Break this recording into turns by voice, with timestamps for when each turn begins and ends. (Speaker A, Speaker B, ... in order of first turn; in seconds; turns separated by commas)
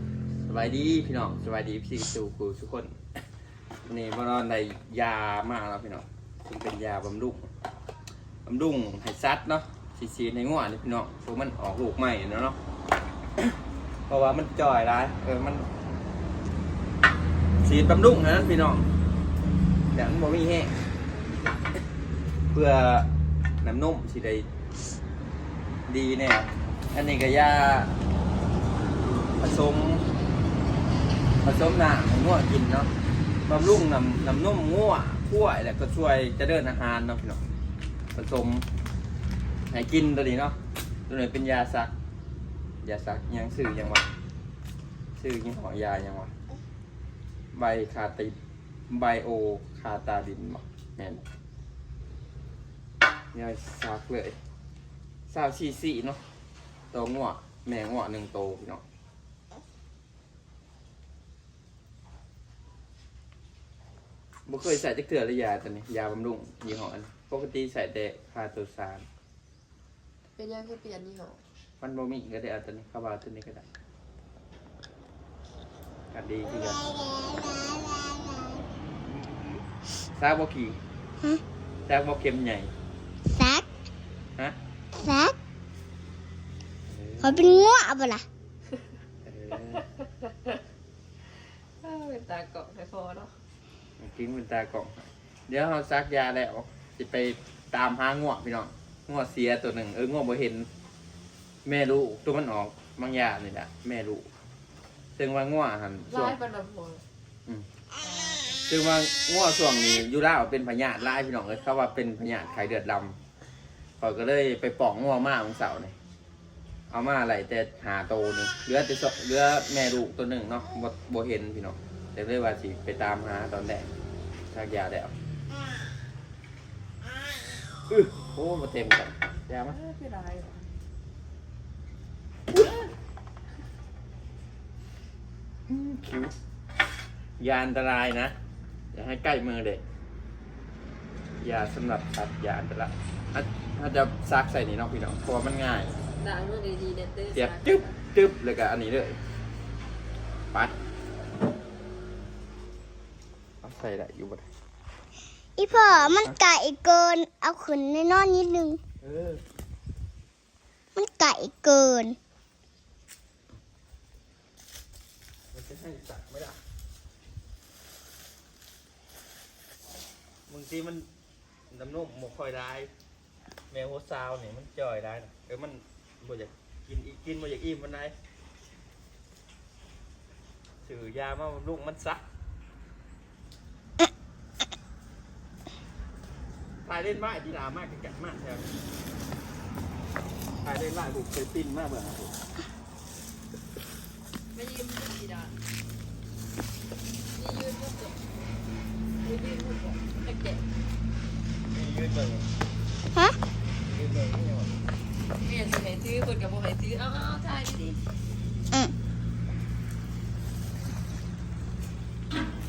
Speaker A: 0.5-3.0, Speaker A: 3.9-7.5, Speaker A: 8.4-12.6, Speaker A: 14.1-15.7, Speaker A: 17.6-18.9, Speaker A: 19.9-20.7, Speaker A: 22.5-23.1, Speaker A: 23.6-24.5, Speaker A: 25.9-28.0, Speaker A: 29.4-30.1, Speaker A: 31.4-32.9, Speaker A: 33.5-37.4, Speaker A: 38.1-38.6, Speaker A: 39.7-40.5, Speaker A: 41.1-41.9, Speaker A: 42.8-44.1, Speaker A: 45.2-46.3, Speaker A: 47.5-48.4, Speaker A: 48.9-51.2, Speaker A: 53.3-54.4, Speaker A: 55.3-56.2, Speaker A: 56.9-58.8, Speaker A: 64.5-69.1, Speaker B: 70.4-71.4, Speaker A: 71.8-73.7, Speaker A: 76.1-76.8, Speaker C: 76.9-78.5, Speaker A: 80.1-80.8, Speaker A: 81.9-82.7, Speaker C: 83.3-83.7, Speaker C: 85.0-85.4, Speaker A: 86.9-87.7, Speaker C: 87.2-88.2, Speaker A: 89.2-89.8, Speaker B: 91.8-93.3, Speaker A: 94.0-95.0, Speaker A: 95.5-100.7, Speaker A: 101.7-104.3, Speaker A: 105.2-106.4, Speaker B: 106.1-107.0, Speaker B: 108.0-108.6, Speaker A: 108.7-113.2, Speaker A: 114.0-116.0, Speaker A: 116.9-123.9, Speaker A: 124.5-125.1, Speaker A: 127.9-129.8, Speaker B: 129.7-130.7, Speaker A: 135.7-136.3, Speaker A: 137.4-138.3, Speaker A: 138.9-139.8, Speaker A: 141.4-145.9, Speaker B: 146.2-147.9, Speaker A: 147.3-149.2, Speaker A: 153.6-154.4, Speaker C: 155.6-158.8, Speaker A: 155.7-156.4, Speaker A: 159.0-159.4, Speaker C: 160.9-162.2, Speaker A: 165.5-166.6, Speaker A: 170.5-171.1, Speaker A: 171.7-172.9, Speaker A: 173.7-178.1, Speaker A: 180.8-182.2, Speaker A: 186.8-188.7, Speaker A: 190.6-192.3, Speaker B: 194.5-195.5, Speaker B: 197.3-198.2, Speaker B: 199.2-200.6, Speaker A: 201.7-202.5, Speaker A: 203.8-204.8, Speaker B: 205.4-208.0